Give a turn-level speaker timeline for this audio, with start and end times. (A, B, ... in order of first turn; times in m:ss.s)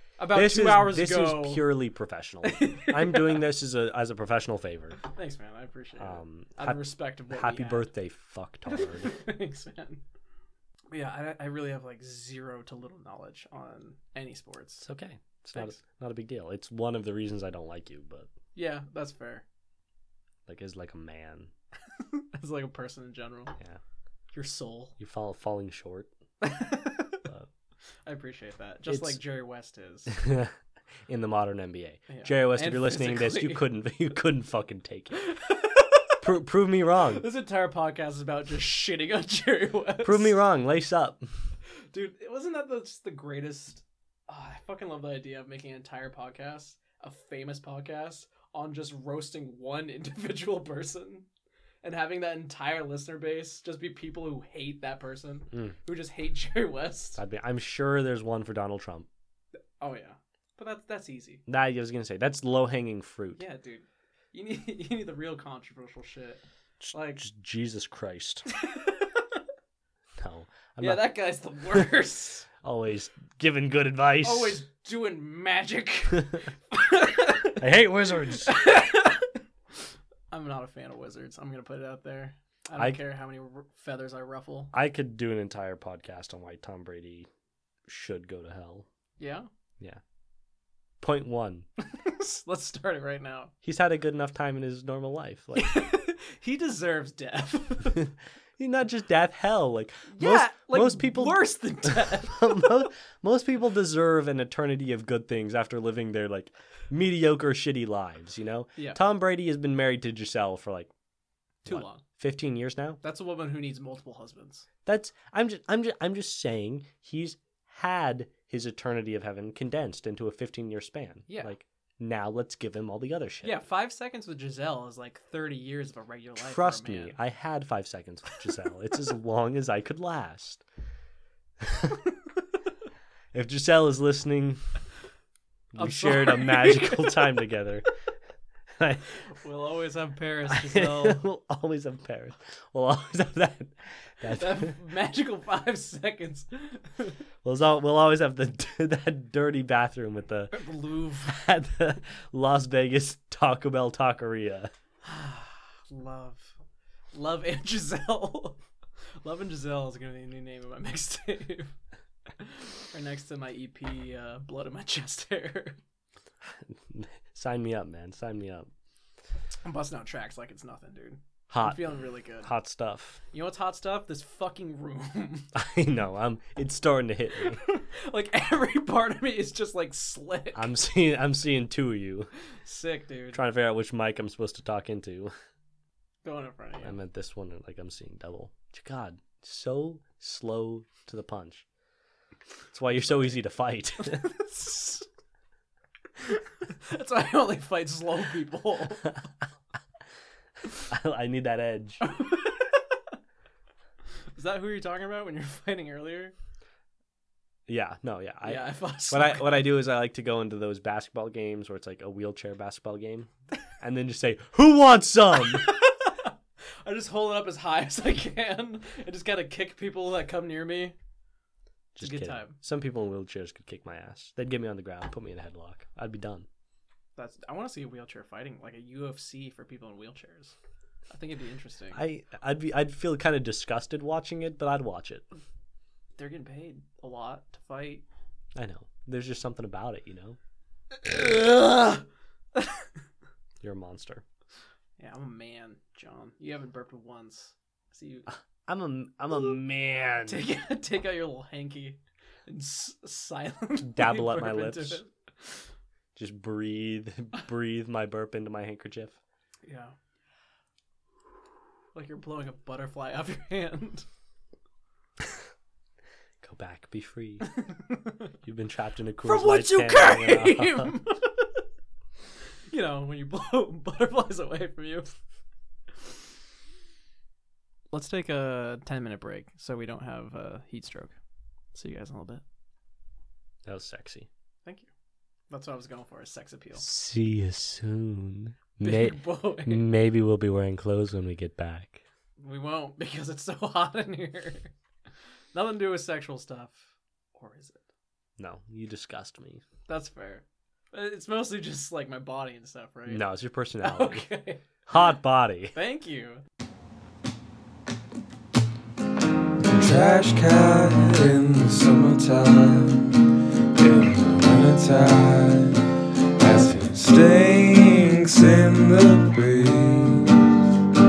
0:00.2-0:01.7 A
0:00.3-0:05.0 B
0:02.4-0:03.4 A
0:05.0-0:07.9 A
0:06.0-0:09.2 B
0:08.7-0:10.0 A
0:10.9-0:14.8 A
0:14.8-0:18.3 B
0:18.5-0:19.4 A
0:20.5-0:21.5 B
0:21.9-0:23.5 A
0:24.3-0:24.9 A
0:25.0-0:26.1 B
0:26.4-0:27.2 A
0:28.0-0:30.2 A
0:28.9-0:29.2 B
0:30.1-0:30.5 B
0:31.1-0:35.2 B
0:32.1-0:33.7 A
0:35.1-0:36.2 A
0:36.2-0:37.2 B
0:37.1-0:40.4 A
0:40.0-0:41.3 B
0:41.9-0:51.2 A
0:51.8-0:57.2 A
0:57.2-0:59.1 B
0:59.8-1:01.4 A
1:01.5-1:03.4 B
1:03.3-1:06.4 A
1:06.8-1:08.4 B
1:06.9-1:07.2 A
1:08.5-1:09.4 A
1:10.2-1:11.9 B
1:10.8-1:12.5 A
1:12.6-1:14.6 B
1:14.2-1:17.6 A
1:17.6-1:18.5 B
1:18.4-1:19.4 A
1:20.3-1:24.7 A
1:24.7-1:27.3 B
1:27.9-1:28.9 B
1:29.2-1:29.5 A
1:31.0-1:31.6 B
1:31.8-1:33.5 A
1:33.6-1:35.8 B
1:35.6-1:38.1 A
1:38.0-1:50.9 B
1:40.1-1:42.9 A
1:51.6-1:52.0 A
1:51.6-1:53.0 B
1:53.0-1:54.6 A
1:54.8-2:03.5 B
2:01.3-2:01.5 A
2:03.4-2:07.2 A
2:06.4-2:10.6 B
2:11.6-2:12.0 B
2:13.3-2:14.6 B
2:15.7-2:17.8 B
2:15.8-2:17.2 A
2:19.3-2:21.2 A
2:20.5-2:24.7 B
2:24.3-2:27.2 A
2:27.4-2:30.6 B
2:30.5-2:31.4 A
2:31.2-2:34.7 B
2:35.0-2:36.5 A
2:37.1-2:38.6 A
2:39.2-2:41.7 A
2:42.4-2:45.8 A
2:46.4-2:48.7 B
2:49.6-2:52.5 A
2:51.5-2:51.9 B
2:52.4-2:53.2 B
2:53.3-2:55.5 A
2:55.5-2:57.6 B
2:57.4-3:00.7 A
3:00.5-3:02.3 B
3:02.6-3:03.4 A
3:03.3-3:05.3 B
3:06.2-3:07.0 A
3:06.8-3:11.6 B
3:12.7-3:14.3 B
3:13.0-3:13.3 A
3:14.0-3:15.1 A
3:16.2-3:19.2 A
3:20.9-3:22.0 B
3:22.0-3:23.0 A
3:24.3-3:26.3 A
3:27.7-3:35.6 B
3:28.4-3:29.6 A
3:35.5-3:36.3 A
3:36.8-3:40.9 A
3:41.9-3:46.5 B
3:42.0-3:42.6 A
3:47.2-3:50.5 A
3:51.1-3:52.0 A
3:51.9-3:55.3 B
3:56.2-3:58.0 A
3:58.5-4:00.4 B
4:01.0-4:02.9 A
4:03.6-4:04.2 B
4:05.0-4:08.3 A
4:08.3-4:10.4 B
4:10.3-4:15.6 A
4:13.8-4:15.0 B
4:16.1-4:19.2 B
4:19.6-4:19.9 A
4:21.9-4:24.0 A
4:26.4-4:27.5 B
4:27.6-4:28.1 A
4:28.4-4:30.9 B
4:29.2-4:31.6 A
4:32.7-4:35.1 A
4:37.9-4:41.1 A
4:41.7-4:42.4 A
4:43.6-4:44.3 B
4:45.5-4:46.8 A
4:46.8-4:52.0 B
4:48.8-4:49.8 A
4:52.4-4:54.7 A
4:55.5-4:57.8 A
4:58.4-4:59.6 B
4:59.9-5:03.2 A
5:03.1-5:04.3 B
5:03.8-5:04.6 A
5:04.8-5:05.7 B
5:05.7-5:06.4 A
5:09.6-5:15.8 C
5:16.4-5:20.3 C